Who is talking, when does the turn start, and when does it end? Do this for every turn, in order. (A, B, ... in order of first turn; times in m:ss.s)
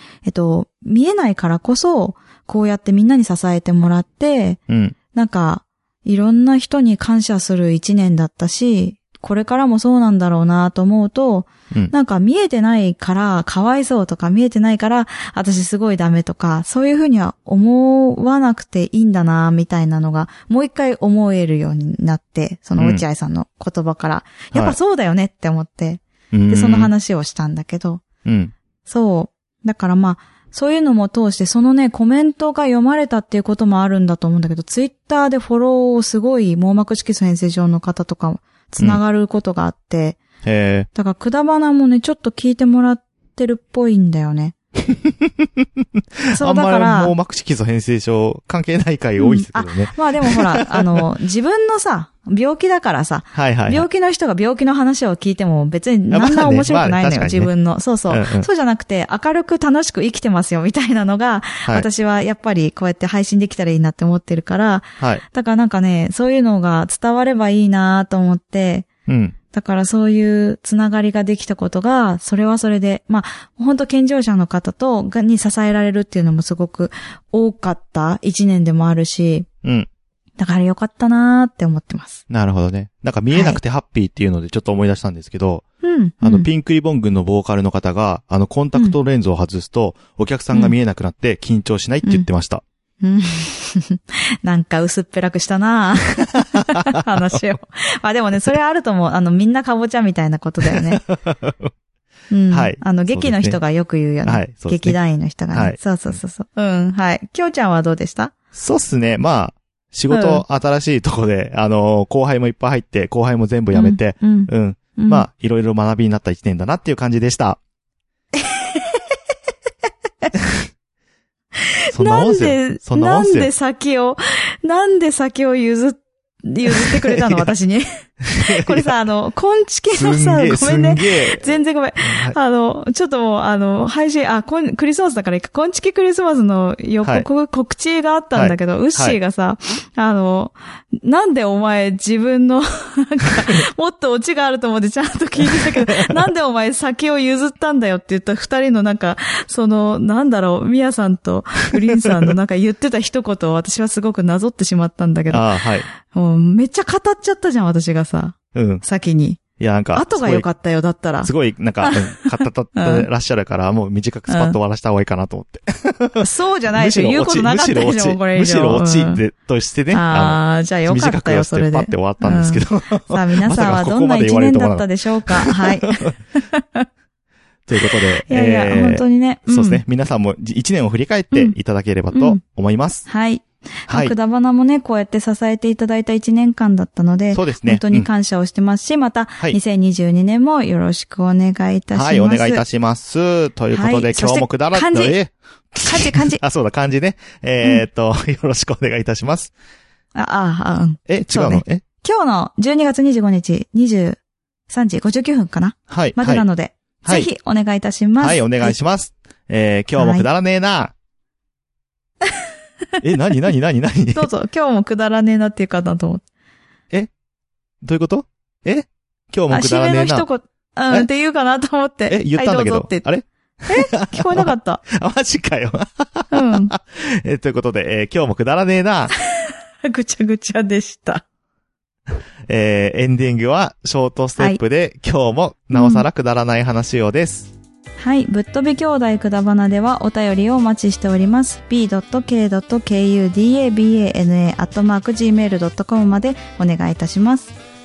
0:00.2-0:04.6 A
0:04.7-0:05.0 B
0:05.1-0:28.0 A
0:22.8-0:23.0 B
0:26.3-0:26.9 B
0:28.2-0:28.5 B
0:28.9-0:40.2 A
0:40.4-0:40.9 B
0:40.9-0:44.6 A
0:44.9-0:45.6 B
0:46.2-0:51.0 B
0:46.3-0:47.1 A
0:49.2-1:08.9 A
0:53.4-0:53.9 B
0:56.1-0:57.5 B
0:58.1-0:58.5 B
1:09.1-1:09.4 B
1:09.5-1:19.5 A
1:20.4-1:22.2 A
1:22.3-1:25.6 B
1:23.3-1:23.6 A
1:25.8-1:26.5 A
1:26.2-1:32.6 B
1:33.0-1:41.0 A
1:36.6-1:37.0 B
1:40.7-1:41.7 B
1:42.3-1:48.3 A
1:42.5-1:43.6 B
1:44.2-1:45.0 B
1:45.5-1:46.2 B
1:48.5-1:57.6 B
1:50.1-1:50.4 A
1:53.7-1:55.3 A
1:58.4-1:59.2 A
2:01.9-2:07.9 A
2:01.9-2:03.5 B
2:06.8-2:07.5 B
2:08.2-2:08.9 B
2:08.4-2:39.4 A
2:09.9-2:12.4 B
2:18.4-2:19.2 B
2:25.6-2:26.2 B
2:35.3-2:35.9 B
2:38.6-2:38.8 B
2:39.6-2:40.4 B
2:39.9-2:41.3 A
2:41.2-2:56.1 B
2:41.8-2:43.1 A
2:44.3-2:44.6 A
2:46.2-2:49.2 A
2:49.9-2:56.9 A
2:57.7-3:03.1 B
2:57.9-2:59.8 A
3:02.1-3:02.4 A
3:03.1-3:12.6 A
3:03.9-3:04.1 B
3:07.3-3:08.1 B
3:11.9-3:19.5 B
3:13.7-3:15.2 A
3:15.8-3:16.4 A
3:20.2-3:28.8 A
3:21.1-3:21.8 B
3:25.9-3:26.4 B
3:27.0-3:27.3 B
3:28.2-3:30.9 B
3:30.0-3:30.3 A
3:33.0-3:34.3 B
3:34.1-3:36.2 A
3:37.8-3:40.3 B
3:39.5-3:43.1 A
3:42.1-3:49.1 B
3:43.7-3:44.8 A
3:46.3-3:46.7 A
3:49.2-3:51.2 A
3:52.5-3:57.5 B
3:55.7-3:56.0 A
3:58.0-4:07.5 A